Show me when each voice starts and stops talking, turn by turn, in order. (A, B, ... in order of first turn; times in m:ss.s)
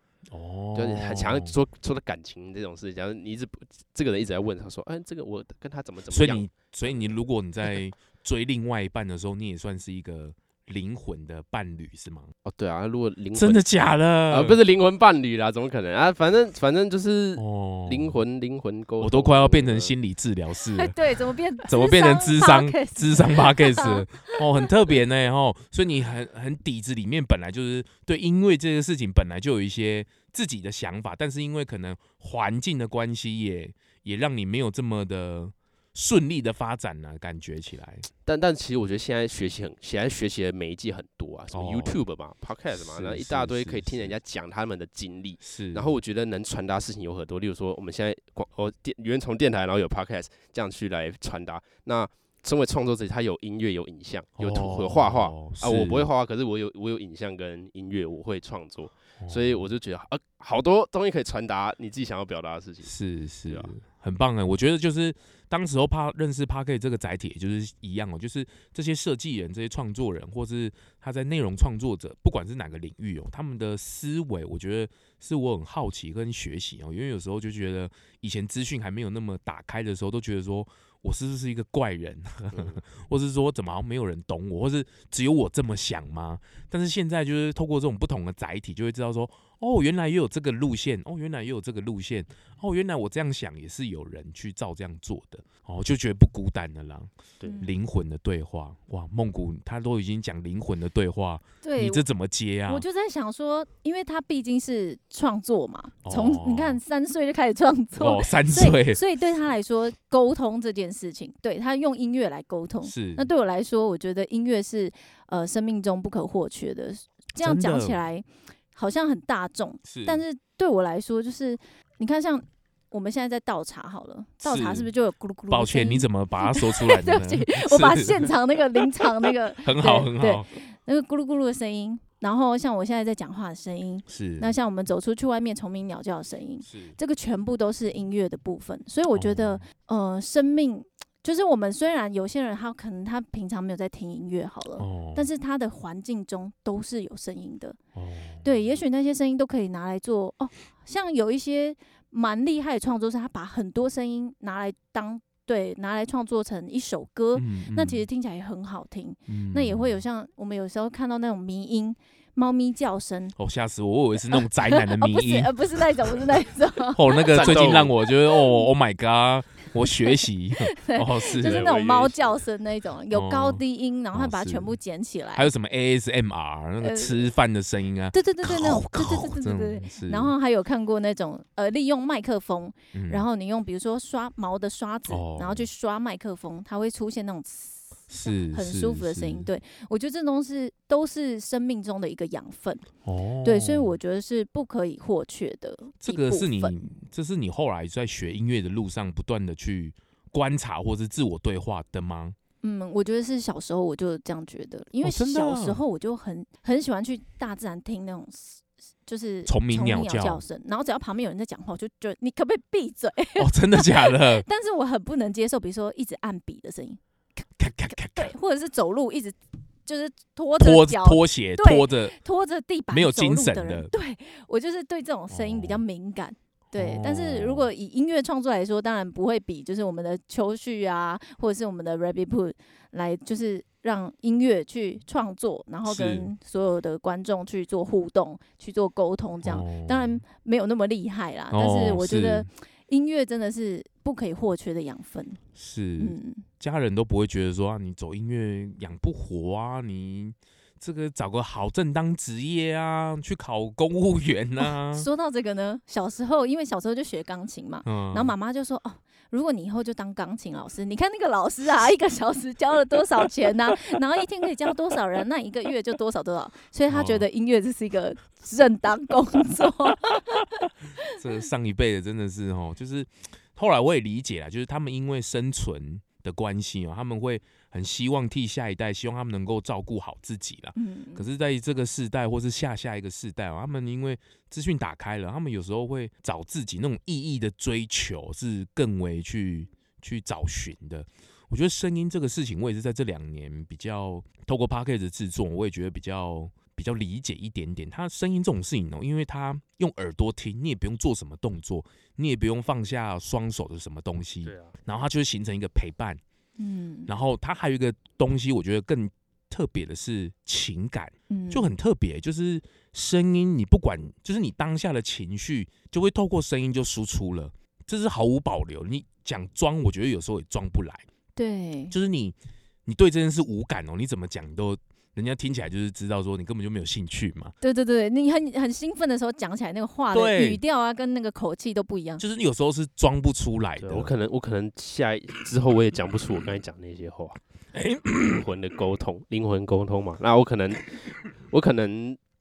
0:00.3-0:01.5 A
0:00.7-0:07.1 B
0:06.1-0:12.3 A
0:12.4-0:13.6 B
0:13.3-0:14.6 A
0:14.3-0:19.9 B
0:17.4-0:18.2 A
0:19.0-0:21.0 A
0:20.7-0:24.3 C
0:21.6-0:38.1 A
0:38.2-1:02.9 B
0:41.5-0:42.0 A
0:42.7-0:44.1 A
0:45.4-0:45.9 A
0:54.4-0:56.1 A
0:59.2-0:59.6 A
1:02.8-1:42.8 A
1:22.5-1:22.8 B
1:41.6-1:42.0 C
1:42.7-2:27.8 C
1:46.0-1:46.8 A
1:48.0-1:49.0 A
1:52.8-1:53.3 A
1:57.4-1:58.0 A
1:59.8-2:00.2 A
2:04.4-2:04.9 A
2:05.5-2:10.5 A
2:14.1-2:14.5 A
2:16.6-2:17.0 A
2:19.1-2:19.6 A
2:24.8-2:25.3 A
2:27.9-2:28.5 A
2:28.4-2:43.4 C
2:37.3-2:38.0 A
2:39.3-2:40.0 A
2:43.4-2:45.5 A
2:44.3-2:48.6 C
2:46.9-2:51.7 A
2:47.3-2:47.9 B
2:50.7-2:55.5 C
2:51.4-2:52.4 B
2:53.1-2:53.6 A
2:54.1-2:54.7 A
2:55.3-3:00.3 A
2:56.8-2:57.3 C
2:58.1-3:12.9 C
3:02.9-3:03.2 A
3:05.1-3:05.7 A
3:08.1-3:09.5 A
3:13.0-3:13.9 A
3:13.4-3:16.8 C
3:16.0-3:22.4 A
3:22.6-3:37.0 C
3:25.0-3:25.8 A
3:29.4-3:30.4 A
3:33.4-3:34.4 A
3:37.6-3:38.3 A
3:38.1-4:05.4 C
3:40.6-3:42.2 A
3:42.9-3:43.9 A
3:45.3-3:45.8 A
3:46.7-3:47.7 A
3:55.8-3:56.3 A
3:59.4-4:00.2 A
4:01.5-4:02.5 A
4:05.6-4:15.1 A
4:06.0-4:06.4 C
4:14.6-4:31.1 C
4:17.8-4:18.3 A
4:26.9-4:27.2 A
4:31.1-5:06.2 A
4:40.8-4:41.3 C
5:04.4-5:04.8 B
5:06.6-5:07.1 C
5:07.1-5:21.1 A
5:11.3-5:11.7 C
5:21.4-5:21.9 C
5:21.9-5:22.4 A
5:22.8-5:27.5 A
5:27.6-5:32.2 C
5:30.1-5:30.6 A
5:32.2-5:34.1 A
5:33.8-5:37.4 B
5:37.7-5:38.5 A
5:38.3-5:42.2 B